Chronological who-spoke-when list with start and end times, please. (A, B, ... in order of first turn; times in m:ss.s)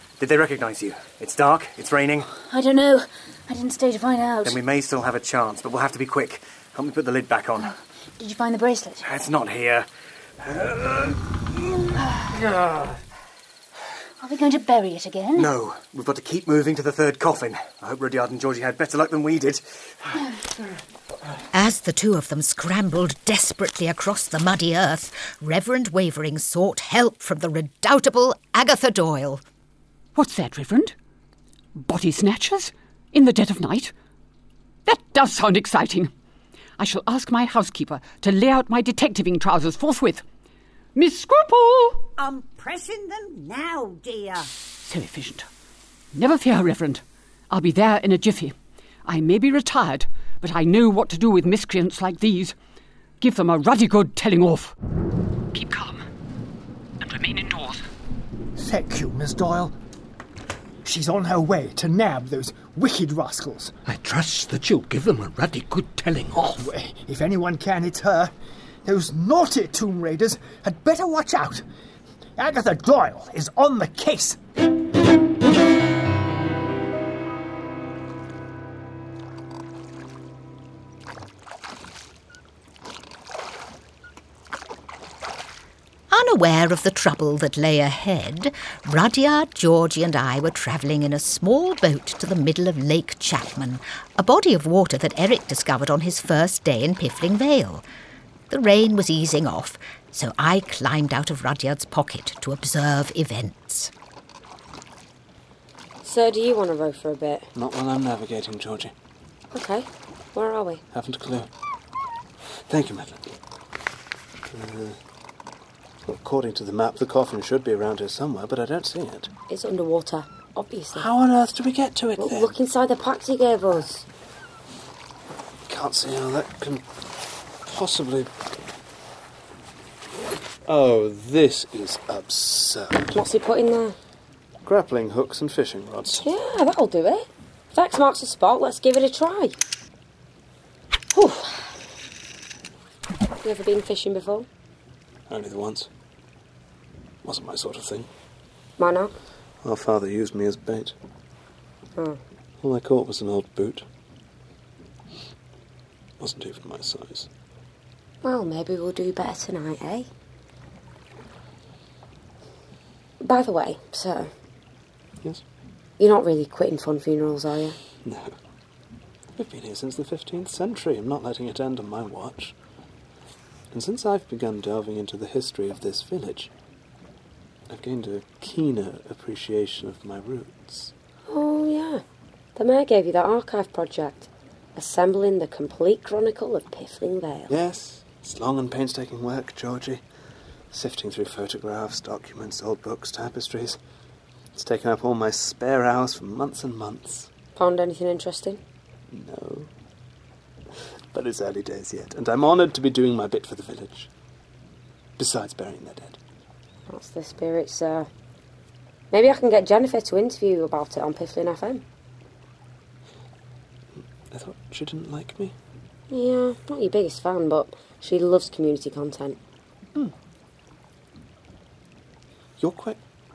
0:00.2-0:02.3 A
0:02.4-0:04.6 B
0:04.4-0:07.7 A
0:08.2-0:09.0 B
0:09.0-0:09.9 A
0:10.4-0:11.2 A
0:11.8-0:13.0 A
0:14.2-0:15.5 B
0:15.4-0:20.2 A
0:21.5-0:29.4 C
0:30.1-0:30.9 D
0:31.8-0:33.9 D
0:34.8-0:36.1 D
0:36.8-0:40.2 D
0:40.9-0:42.1 D
0:42.2-0:44.5 E
0:44.8-0:45.5 D
0:46.1-0:48.5 D
0:49.0-0:52.6 D
0:53.2-0:54.7 D
0:55.5-0:56.0 D
0:57.0-0:57.8 D
0:58.6-0:59.8 F
1:00.8-1:03.8 F
1:03.8-1:06.6 G
1:06.4-1:08.3 F
1:08.8-1:11.6 F
1:12.4-1:14.4 F
1:26.1-1:37.8 C
1:38.5-1:43.9 C
1:46.0-1:47.5 H
1:47.5-1:48.9 I
1:49.5-1:50.8 H
1:50.9-1:51.5 I
1:52.7-1:53.3 I
1:54.5-1:55.0 I
1:56.0-1:59.3 I
1:59.5-2:01.1 H
2:00.9-2:02.5 I
2:02.2-2:04.0 H
2:05.7-2:06.8 I
2:07.6-2:08.3 I
2:10.6-2:13.1 I
2:13.1-2:14.0 H
2:14.6-2:16.2 I
2:16.2-2:19.6 H
2:21.1-2:21.8 H
2:23.4-2:24.5 H
2:25.3-2:25.9 I
2:27.2-2:28.1 I
2:28.8-2:29.1 H
2:29.6-2:30.9 I
2:32.6-2:33.8 I
2:36.2-2:37.3 I
2:38.2-2:40.1 H
2:43.2-2:44.3 H
2:46.0-2:47.8 H
2:48.0-2:48.3 I
2:49.4-2:52.5 I
2:53.7-2:56.5 I
2:57.7-3:00.9 I
3:01.3-3:02.0 H
3:02.6-3:07.5 H
3:07.5-3:10.0 I
3:10.7-3:13.8 I
3:14.5-3:17.3 I
3:17.6-3:18.6 H
3:19.1-3:19.7 I
3:21.1-3:24.1 I
3:25.2-3:26.2 I
3:26.9-3:28.1 H
3:29.1-3:31.8 H
3:34.3-3:35.5 I
3:36.1-3:39.4 H
3:42.6-3:43.0 I